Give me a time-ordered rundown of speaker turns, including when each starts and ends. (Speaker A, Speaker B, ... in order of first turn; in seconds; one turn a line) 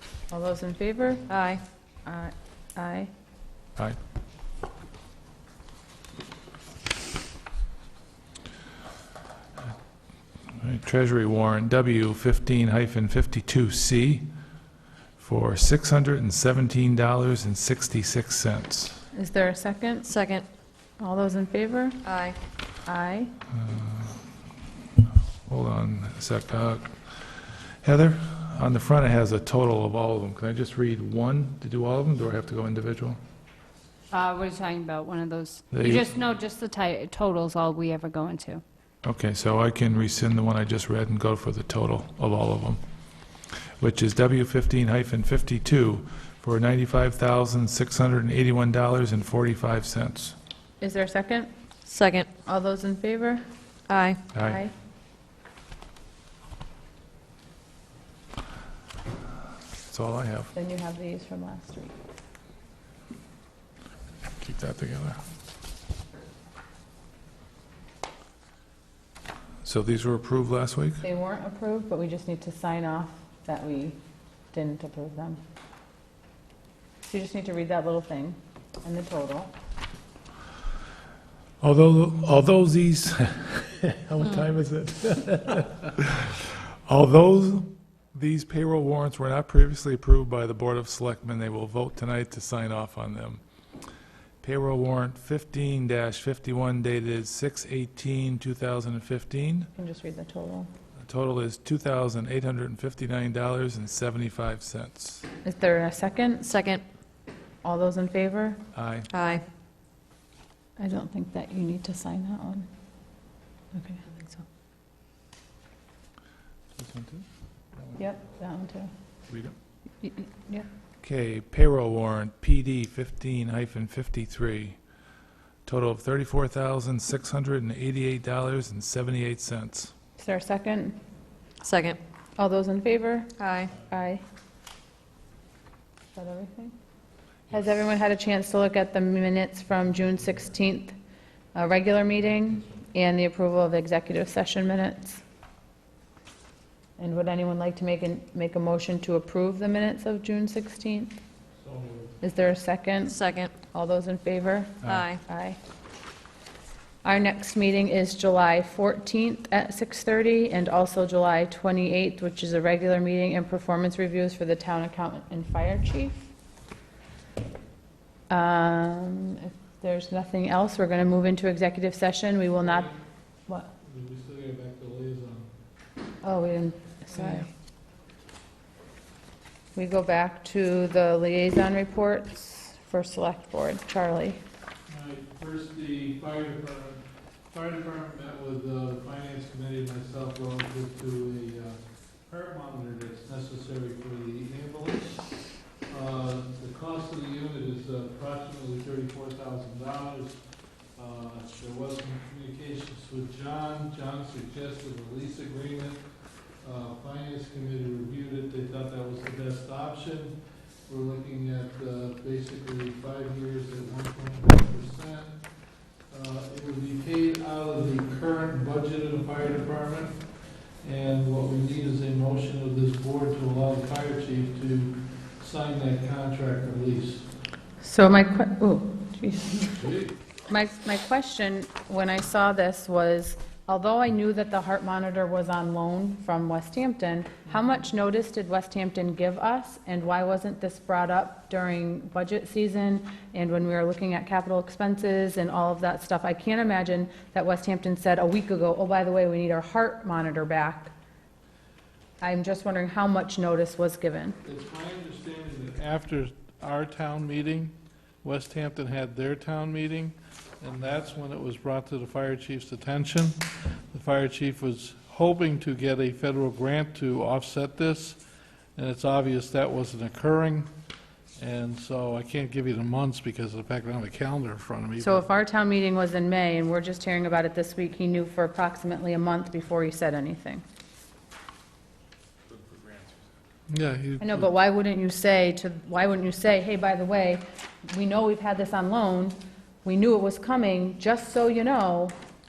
Speaker A: 0.3-1.2
Speaker B: 1.3-1.6
Speaker A: 2.0-3.1
Speaker C: 10.6-14.3
Speaker C: 15.2-19.0
Speaker A: 19.1-20.1
Speaker B: 20.1-20.4
Speaker A: 21.0-22.0
Speaker B: 22.0-22.4
Speaker A: 22.9-23.3
Speaker C: 23.6-24.2
Speaker C: 25.5-33.2
Speaker D: 34.1-38.6
Speaker C: 35.7-36.0
Speaker C: 39.0-42.8
Speaker C: 43.8-50.4
Speaker A: 50.8-51.5
Speaker B: 51.9-52.3
Speaker A: 52.5-53.4
Speaker B: 53.9-54.2
Speaker C: 54.3-54.6
Speaker A: 54.4-54.7
Speaker C: 59.9-60.5
Speaker A: 60.5-61.9
Speaker C: 64.4-65.2
Speaker C: 69.6-71.0
Speaker A: 71.0-74.0
Speaker A: 74.5-75.4
Speaker A: 77.0-79.5
Speaker C: 81.6-93.4
Speaker C: 94.4-99.7
Speaker A: 99.8-100.7
Speaker C: 101.0-105.3
Speaker A: 105.4-106.5
Speaker B: 106.4-106.8
Speaker A: 107.6-108.6
Speaker C: 108.7-109.1
Speaker B: 109.1-109.4
Speaker A: 110.8-112.7
Speaker A: 113.7-114.1
Speaker C: 116.8-117.2
Speaker A: 118.0-118.9
Speaker C: 119.3-119.5
Speaker A: 120.0-120.7
Speaker C: 121.0-124.8
Speaker C: 125.7-129.9
Speaker A: 130.2-131.0
Speaker B: 131.6-132.0
Speaker A: 132.4-134.2
Speaker B: 133.4-133.7
Speaker A: 136.1-136.7
Speaker A: 137.5-140.9
Speaker A: 141.5-145.2
Speaker A: 147.0-151.1
Speaker E: 151.6-152.1
Speaker A: 152.2-153.2
Speaker B: 153.1-153.5
Speaker A: 153.7-155.6
Speaker B: 154.8-155.2
Speaker A: 157.0-166.3
Speaker A: 168.3-172.9
Speaker E: 172.6-172.9
Speaker E: 173.8-175.5
Speaker A: 176.2-177.5
Speaker A: 179.7-184.4
Speaker E: 184.9-195.3
Speaker E: 195.9-200.4
Speaker E: 200.9-206.0
Speaker E: 206.6-210.3
Speaker E: 210.9-215.3
Speaker E: 216.1-220.2
Speaker E: 220.8-227.2
Speaker A: 227.8-229.8
Speaker E: 229.8-230.1
Speaker A: 230.5-250.9
Speaker A: 252.2-254.4
Speaker E: 254.4-268.2
Speaker E: 268.8-270.7
Speaker E: 271.4-275.3
Speaker A: 275.0-280.6
Speaker C: 282.5-283.1
Speaker E: 283.7-284.5
Speaker A: 284.2-292.1